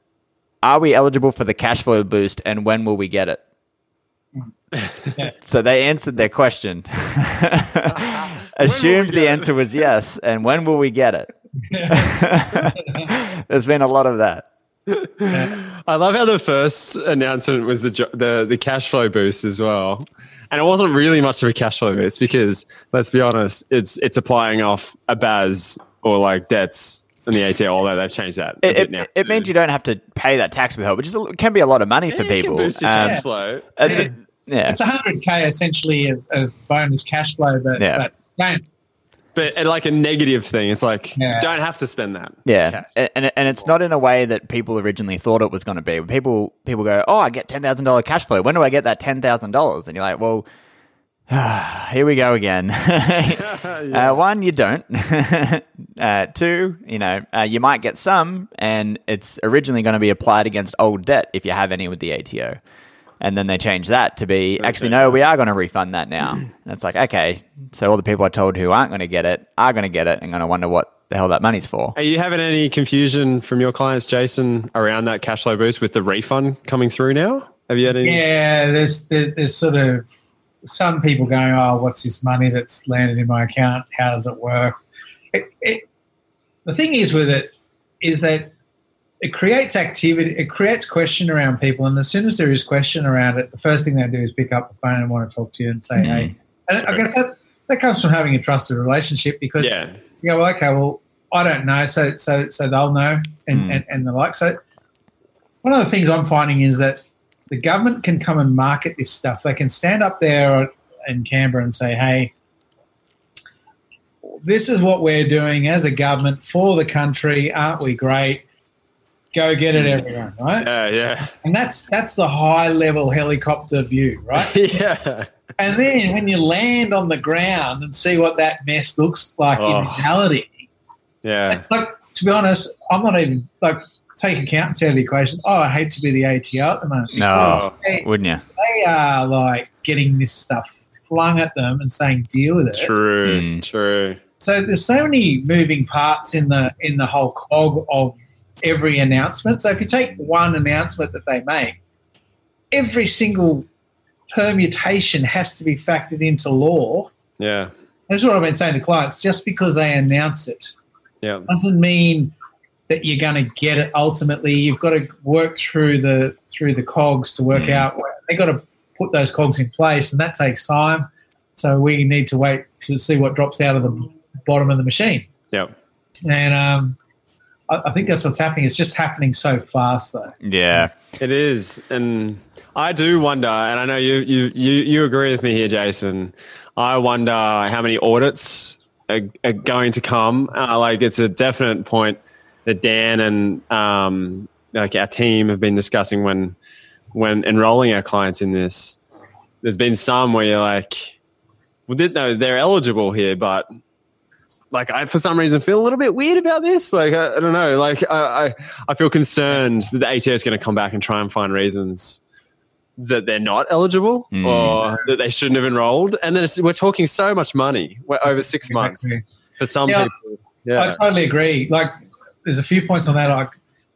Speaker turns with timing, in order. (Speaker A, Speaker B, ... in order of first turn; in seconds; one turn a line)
Speaker A: 0.6-3.4
Speaker B: 4.7-5.1
Speaker A: 5.4-11.3
Speaker B: 7.9-9.5
Speaker C: 11.7-13.1
Speaker A: 11.9-14.5
Speaker B: 14.9-29.5
Speaker C: 15.3-15.6
Speaker A: 28.6-33.2
Speaker B: 32.1-34.0
Speaker A: 33.8-34.8
Speaker C: 33.8-34.1
Speaker C: 34.6-38.6
Speaker A: 37.8-38.0
Speaker B: 39.3-42.9
Speaker C: 41.2-41.5
Speaker A: 42.4-50.5
Speaker A: 51.3-62.6
Speaker B: 53.3-54.2
Speaker A: 63.2-71.9
Speaker B: 64.6-65.2
Speaker B: 71.9-78.2
Speaker C: 77.9-80.1
Speaker C: 80.6-84.8
Speaker C: 85.3-85.8
Speaker C: 86.6-87.5
Speaker C: 88.0-88.5
Speaker C: 89.2-104.6
Speaker A: 96.0-96.3
Speaker B: 99.6-100.0
Speaker A: 103.5-103.8
Speaker C: 105.6-112.3
Speaker C: 114.2-118.4
Speaker C: 119.3-120.7
Speaker B: 119.7-120.0
Speaker B: 120.6-121.3
Speaker C: 121.4-124.6
Speaker B: 124.3-125.3
Speaker C: 125.6-130.6
Speaker B: 129.6-130.1
Speaker B: 131.2-131.6
Speaker C: 131.5-138.1
Speaker A: 137.1-138.4
Speaker B: 137.3-137.7
Speaker C: 138.6-142.9
Speaker B: 142.7-144.2
Speaker A: 143.2-143.6
Speaker C: 144.4-151.8
Speaker C: 152.7-153.7
Speaker C: 154.3-157.1
Speaker B: 157.4-157.7
Speaker C: 158.1-160.7
Speaker B: 161.2-161.5
Speaker C: 161.5-162.3
Speaker C: 162.9-175.3
Speaker A: 167.5-167.8
Speaker C: 176.2-177.0
Speaker C: 177.7-180.4
Speaker A: 180.4-180.9
Speaker B: 181.2-196.6
Speaker B: 197.1-199.0
Speaker B: 199.6-201.2
Speaker B: 201.9-203.7
Speaker B: 204.7-212.2
Speaker B: 213.0-221.0
Speaker A: 214.3-214.8
Speaker C: 214.7-215.0
Speaker C: 218.6-219.2
Speaker C: 219.8-220.1
Speaker C: 220.8-221.9
Speaker C: 222.4-223.6